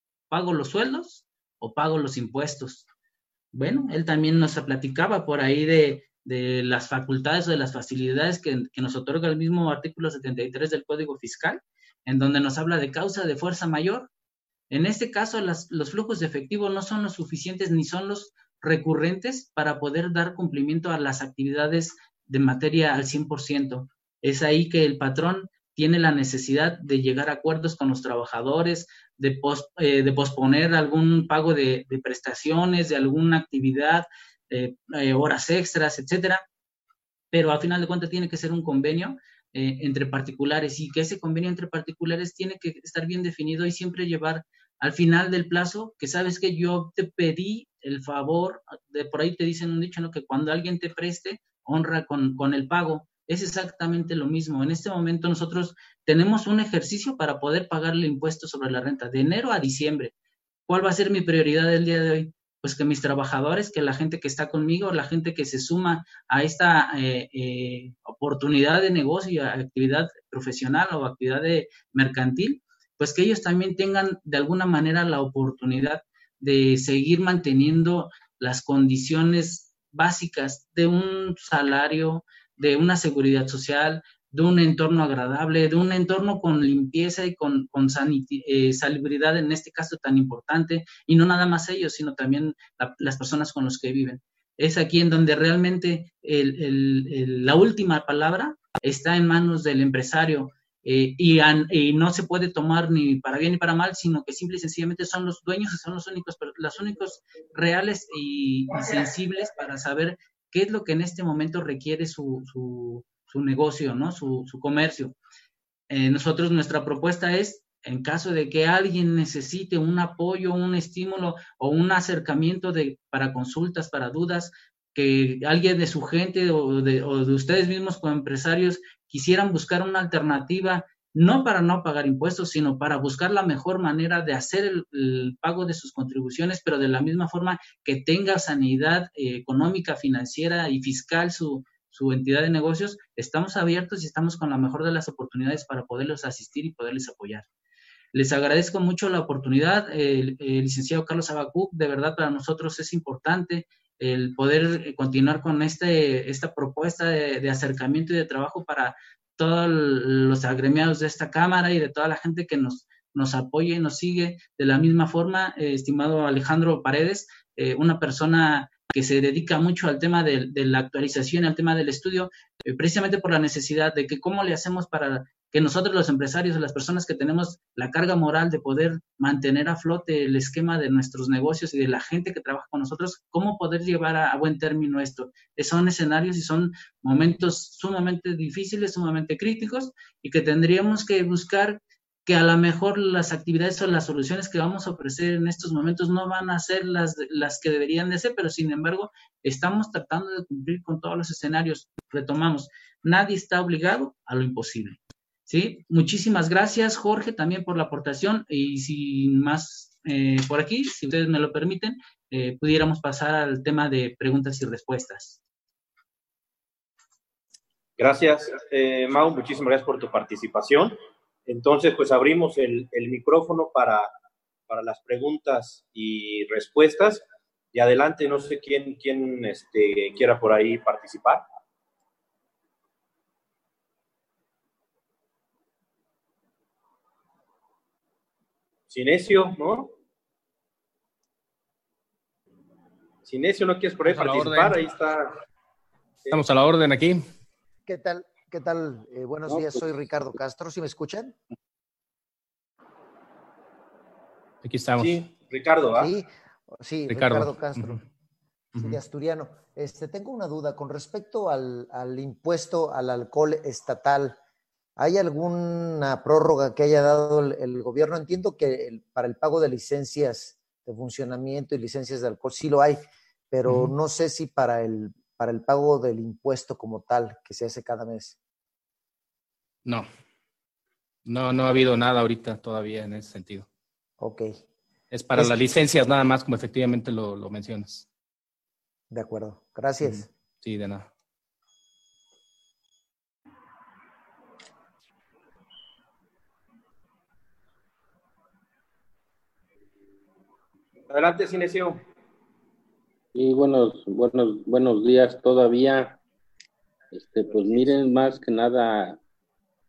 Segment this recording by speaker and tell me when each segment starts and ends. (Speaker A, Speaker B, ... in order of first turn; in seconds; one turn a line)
Speaker A: 0.3-2.9
Speaker A: 3.5-14.1
Speaker A: 14.7-36.4
Speaker A: 37.3-60.1
Speaker A: 60.7-115.2
Speaker A: 115.9-147.5
Speaker A: 148.1-215.4
Speaker B: 218.0-221.0
Speaker B: 221.5-224.1
Speaker B: 224.7-231.4
Speaker B: 238.9-239.9
Speaker B: 243.2-245.3
Speaker C: 244.1-244.8
Speaker C: 246.3-247.2
Speaker D: 247.9-251.4
Speaker E: 249.5-249.8
Speaker C: 254.6-255.3
Speaker B: 255.0-256.1
Speaker D: 256.0-258.0
Speaker C: 257.1-258.0
Speaker C: 258.7-259.0
Speaker D: 258.8-264.4
Speaker D: 265.0-278.4
Speaker C: 273.7-273.9
Speaker C: 281.2-283.7
Speaker D: 284.2-284.6
Speaker C: 285.1-288.1
Speaker D: 289.1-290.3
Speaker C: 290.1-291.1
Speaker B: 301.1-302.0
Speaker E: 303.3-306.2
Speaker E: 307.1-309.2